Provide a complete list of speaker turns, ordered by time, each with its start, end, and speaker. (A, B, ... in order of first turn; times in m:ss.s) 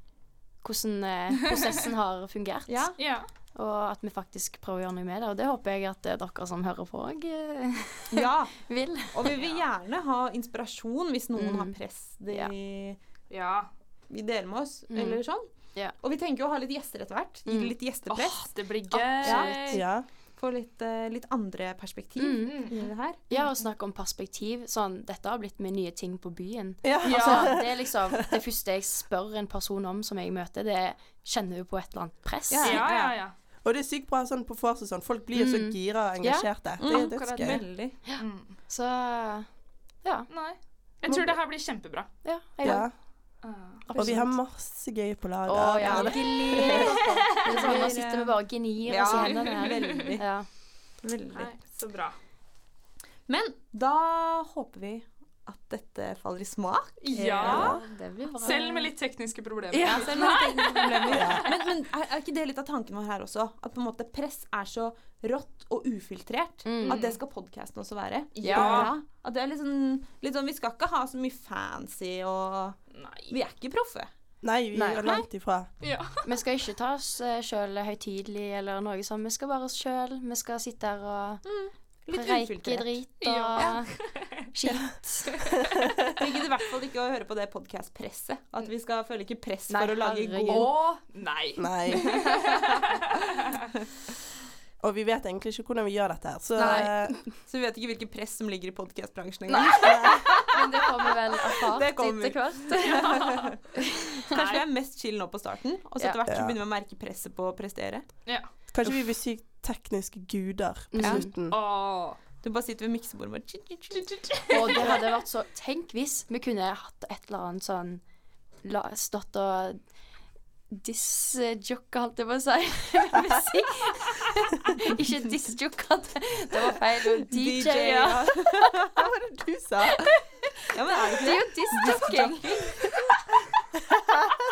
0:00.6-0:09.4 A
0:02.7-0:03.0 B
0:03.0-0:03.3 C
0:08.1-0:13.0 B
0:09.3-0:09.6 C
0:11.4-0:11.8 A
0:13.3-0:13.7 C
0:14.1-0:18.4 B
0:14.9-0:15.2 A
0:17.5-0:17.8 A
0:18.1-0:19.8 C
0:18.9-0:19.8 A
0:19.2-0:19.7 B
0:19.6-0:20.1 D
0:20.4-0:23.2 B
0:22.2-0:22.7 A
0:22.4-0:23.5 C
0:23.3-0:32.9 A
0:26.8-0:28.4 D
0:27.0-0:27.5 C
0:32.5-0:33.2 B
0:32.6-0:33.3 C
0:33.6-0:37.6 D
0:35.3-0:36.5 A
0:36.8-0:38.0 B
0:37.0-0:38.6 C
0:38.0-0:39.5 A
0:40.0-0:40.3 A
0:40.3-0:42.1 C
0:41.1-0:41.4 D
0:42.2-0:42.9 A
0:42.6-0:42.9 D
0:43.4-0:43.9 C
0:43.9-0:44.3 A
0:43.9-0:44.2 B
0:44.0-0:47.0 D
0:45.5-0:50.5 A
0:45.8-0:50.2 B
0:46.7-0:47.9 C
0:49.1-0:50.2 C
0:51.0-0:51.5 B
0:51.3-0:52.2 C
0:53.3-0:58.4 B
0:57.0-0:57.8 C
0:57.4-0:58.9 A
0:58.4-1:01.6 C
0:59.7-1:00.5 A
0:59.8-1:14.1 B
1:01.1-1:01.4 D
1:06.6-1:07.0 A
1:06.8-1:07.2 C
1:08.4-1:08.9 C
1:08.4-1:08.9 A
1:12.9-1:13.4 C
1:14.4-1:15.7 D
1:14.7-1:15.2 A
1:15.8-1:16.4 C
1:16.2-1:21.4 A
1:21.4-1:23.0 B
1:22.1-1:24.0 A
1:23.2-1:24.5 C
1:24.5-1:25.4 A
1:26.2-1:30.7 B
1:29.7-1:30.8 A
1:30.5-1:33.2 C
1:31.6-1:32.1 D
1:34.8-1:37.3 D
1:36.6-1:43.5 B
1:36.6-1:36.9 A
1:39.5-1:43.2 A
1:39.6-1:40.0 C
1:39.8-1:40.2 D
1:42.8-1:43.5 C
1:43.7-1:44.2 A
1:44.3-1:44.6 C
1:44.3-1:48.1 B
1:46.3-1:46.6 D
1:48.7-1:51.6 D
1:50.9-1:51.3 A
1:51.5-1:52.2 C
1:52.4-1:55.0 B
1:54.0-1:55.0 C
1:54.5-1:58.0 A
1:58.6-1:59.8 A
2:00.7-2:08.7 A
2:07.1-2:09.0 B
2:09.0-2:10.1 D
2:10.7-2:12.8 B
2:11.2-2:12.6 A